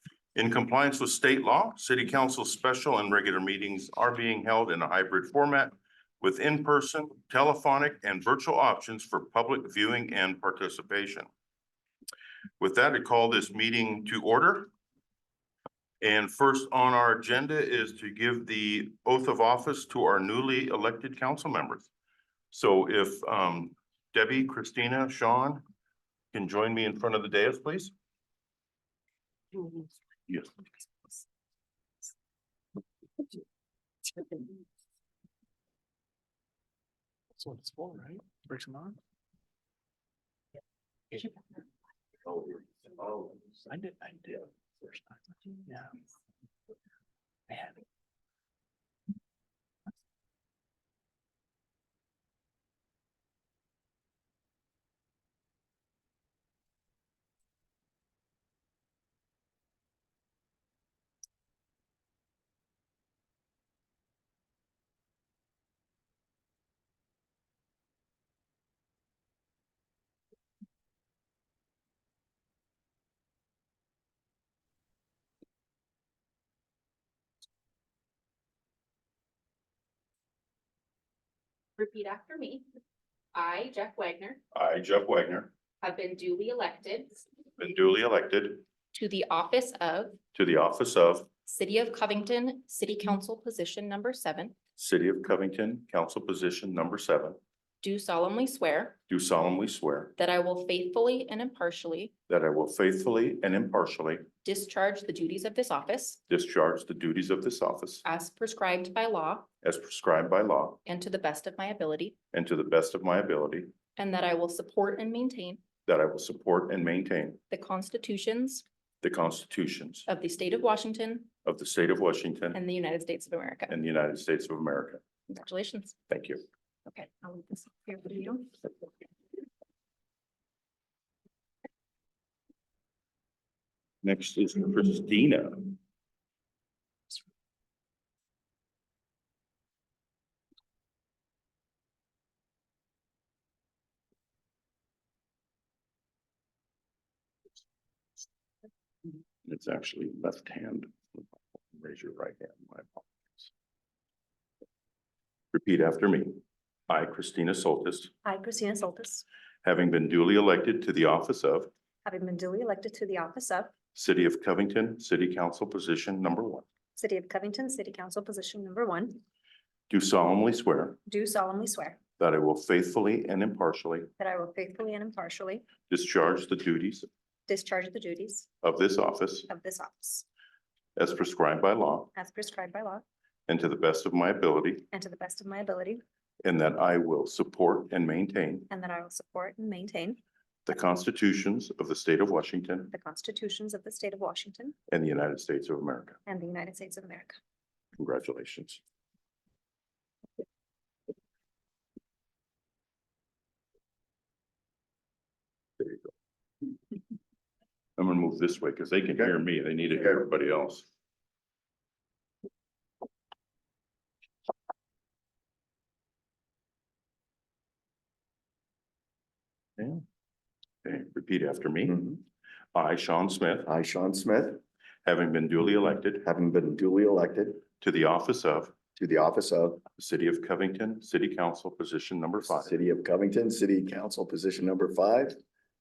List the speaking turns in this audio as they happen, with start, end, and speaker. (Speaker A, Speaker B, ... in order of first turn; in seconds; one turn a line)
Speaker A: 0.3-11.3
Speaker A: 12.6-14.7
Speaker A: 16.0-21.9
Speaker A: 22.5-25.6
Speaker A: 26.3-27.9
Speaker B: 37.4-39.0
Speaker B: 43.5-46.0
Speaker B: 47.5-47.8
Speaker C: 81.8-82.6
Speaker C: 83.3-84.4
Speaker A: 84.5-85.5
Speaker C: 85.8-87.2
Speaker A: 87.6-88.6
Speaker C: 88.9-90.2
Speaker A: 90.3-91.3
Speaker C: 91.5-94.5
Speaker A: 94.8-97.4
Speaker C: 97.8-99.0
Speaker A: 99.1-100.1
Speaker C: 100.2-102.1
Speaker A: 102.3-104.3
Speaker C: 104.4-106.2
Speaker A: 106.3-108.0
Speaker C: 108.0-109.5
Speaker A: 109.6-110.8
Speaker C: 110.8-112.1
Speaker A: 112.3-113.7
Speaker C: 114.0-115.6
Speaker A: 115.8-117.4
Speaker C: 117.5-118.6
Speaker A: 119.0-120.1
Speaker C: 120.1-121.3
Speaker A: 121.4-122.6
Speaker C: 122.5-123.7
Speaker A: 123.7-125.0
Speaker C: 125.3-126.0
Speaker A: 126.1-126.4
Speaker C: 126.8-128.5
Speaker A: 134.0-135.8
Speaker A: 149.4-153.5
Speaker A: 155.5-158.1
Speaker D: 158.2-159.2
Speaker A: 159.6-161.7
Speaker D: 162.0-163.7
Speaker A: 163.9-166.6
Speaker D: 167.0-169.2
Speaker A: 169.9-171.0
Speaker D: 171.1-172.0
Speaker A: 172.2-174.1
Speaker D: 174.2-175.7
Speaker A: 175.9-177.1
Speaker D: 177.5-178.5
Speaker A: 178.6-179.5
Speaker D: 179.5-180.2
Speaker A: 180.9-182.1
Speaker D: 182.1-183.0
Speaker A: 183.5-184.9
Speaker D: 184.9-186.0
Speaker A: 186.4-188.7
Speaker D: 188.7-190.2
Speaker A: 190.7-192.9
Speaker D: 192.9-194.7
Speaker A: 194.9-196.2
Speaker D: 196.2-197.4
Speaker A: 198.0-198.8
Speaker A: 205.8-206.1
Speaker A: 208.0-210.9
Speaker A: 219.8-220.0
Speaker A: 220.8-222.2
Speaker A: 222.7-223.7
Speaker E: 223.7-224.6
Speaker A: 225.0-226.2
Speaker E: 226.2-227.6
Speaker A: 227.8-228.7
Speaker E: 228.9-229.8
Speaker A: 229.9-232.8
Speaker E: 232.4-235.4